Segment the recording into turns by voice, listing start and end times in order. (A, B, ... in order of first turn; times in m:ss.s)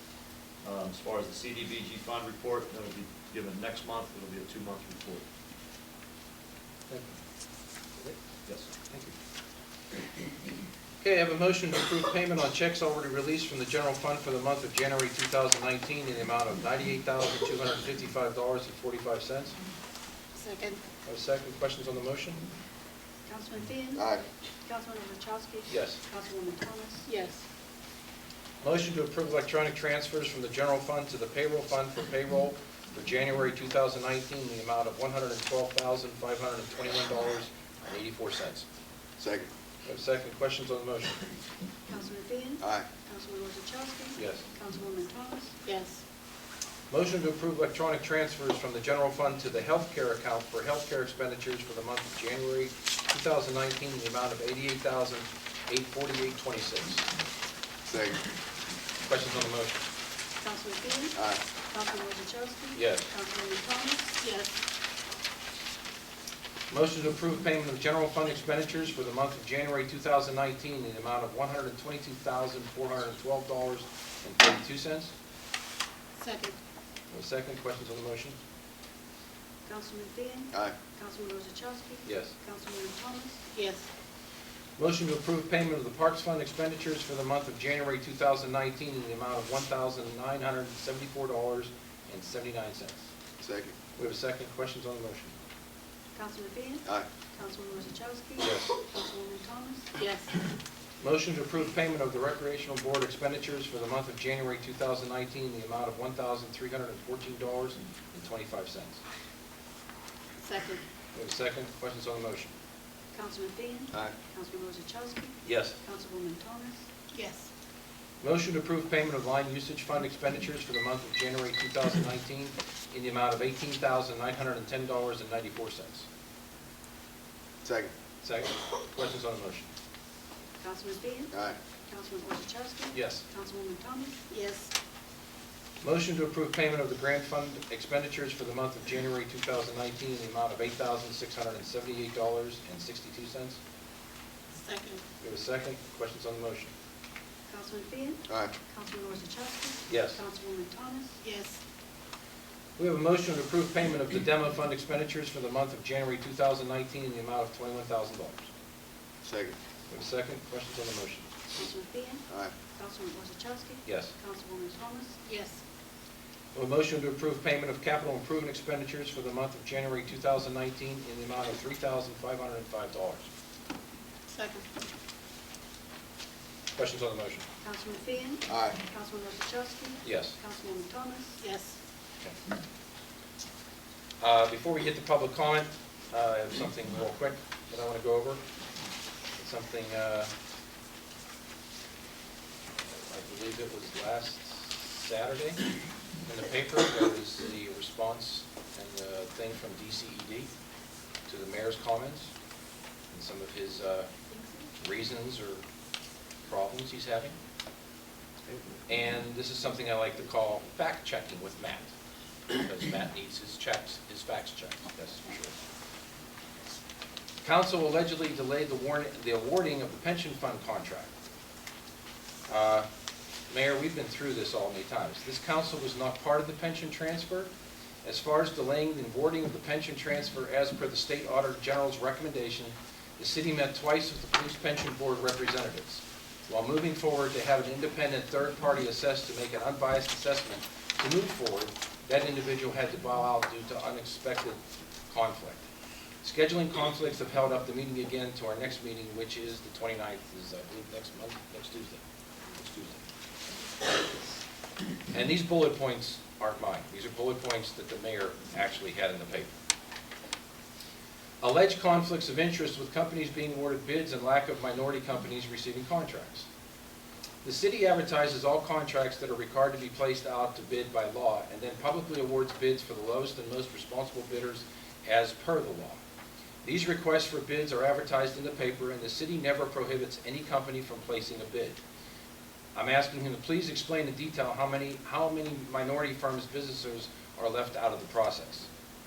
0:00.6-0:05.2 A
0:08.4-0:08.7 A
0:11.0-0:19.6 B
0:20.3-0:20.8 C
0:21.0-0:22.4 B
0:23.2-0:24.1 D
0:24.0-0:24.2 E
0:24.6-0:27.0 D
0:25.7-0:26.0 B
0:27.0-0:27.4 C
0:28.6-0:38.6 B
0:39.2-0:39.5 E
0:39.8-0:41.2 B
0:41.9-0:45.6 D
0:42.6-0:42.9 E
0:44.2-0:44.4 B
0:45.6-0:46.0 C
0:46.9-0:57.1 B
0:57.8-0:58.2 E
0:59.0-0:59.8 B
1:00.4-1:01.2 D
1:01.2-1:01.4 E
1:01.7-1:04.2 D
1:02.7-1:03.1 B
1:04.2-1:04.5 C
1:06.7-1:15.1 B
1:16.2-1:16.6 C
1:17.1-1:18.4 B
1:19.6-1:23.4 D
1:22.0-1:22.3 B
1:23.5-1:23.9 C
1:24.8-1:33.0 B
1:33.4-1:33.7 E
1:34.0-1:35.3 B
1:36.1-1:39.9 D
1:38.4-1:38.8 B
1:39.9-1:40.4 C
1:41.0-1:49.0 B
1:50.4-1:50.8 C
1:51.1-1:52.5 B
1:53.1-1:56.8 D
1:55.4-1:55.8 B
1:57.1-1:57.5 C
1:58.2-2:06.0 B
2:07.6-2:07.9 E
2:08.2-2:09.7 B
2:10.6-2:11.3 D
2:11.3-2:11.6 E
2:11.9-2:14.2 D
2:12.9-2:13.2 B
2:14.3-2:14.7 C
2:15.8-2:23.6 B
2:24.6-2:25.0 C
2:25.2-2:26.7 B
2:27.5-2:31.2 D
2:29.9-2:30.2 B
2:31.2-2:31.6 C
2:32.8-2:38.5 B
2:39.2-2:39.6 E
2:39.9-2:41.3 B
2:41.5-2:45.2 D
2:43.8-2:44.1 B
2:45.2-2:45.6 C
2:46.5-2:53.3 B
2:54.3-2:54.6 C
2:56.7-2:57.4 B
2:57.6-3:01.4 D
2:58.5-2:58.8 E
3:00.0-3:00.4 B
3:01.4-3:01.8 C
3:04.2-3:08.4 B
3:09.4-3:10.3 B
3:12.9-3:15.6 B
3:16.2-3:20.5 B
3:21.3-3:22.3 B
3:23.1-3:24.1 B
3:24.8-3:25.6 B
3:26.4-3:27.4 B
3:28.9-3:31.9 B
3:32.5-3:35.5 B
3:37.4-3:41.1 B
3:42.5-3:42.9 B
3:43.5-3:47.5 B
3:48.0-4:05.6 B
4:06.2-4:12.0 B
4:12.5-4:13.0 B
4:15.1-4:19.5 B
4:21.4-4:26.5 B
4:27.4-4:36.0 B
4:36.6-4:41.8 B
4:42.7-4:48.7 B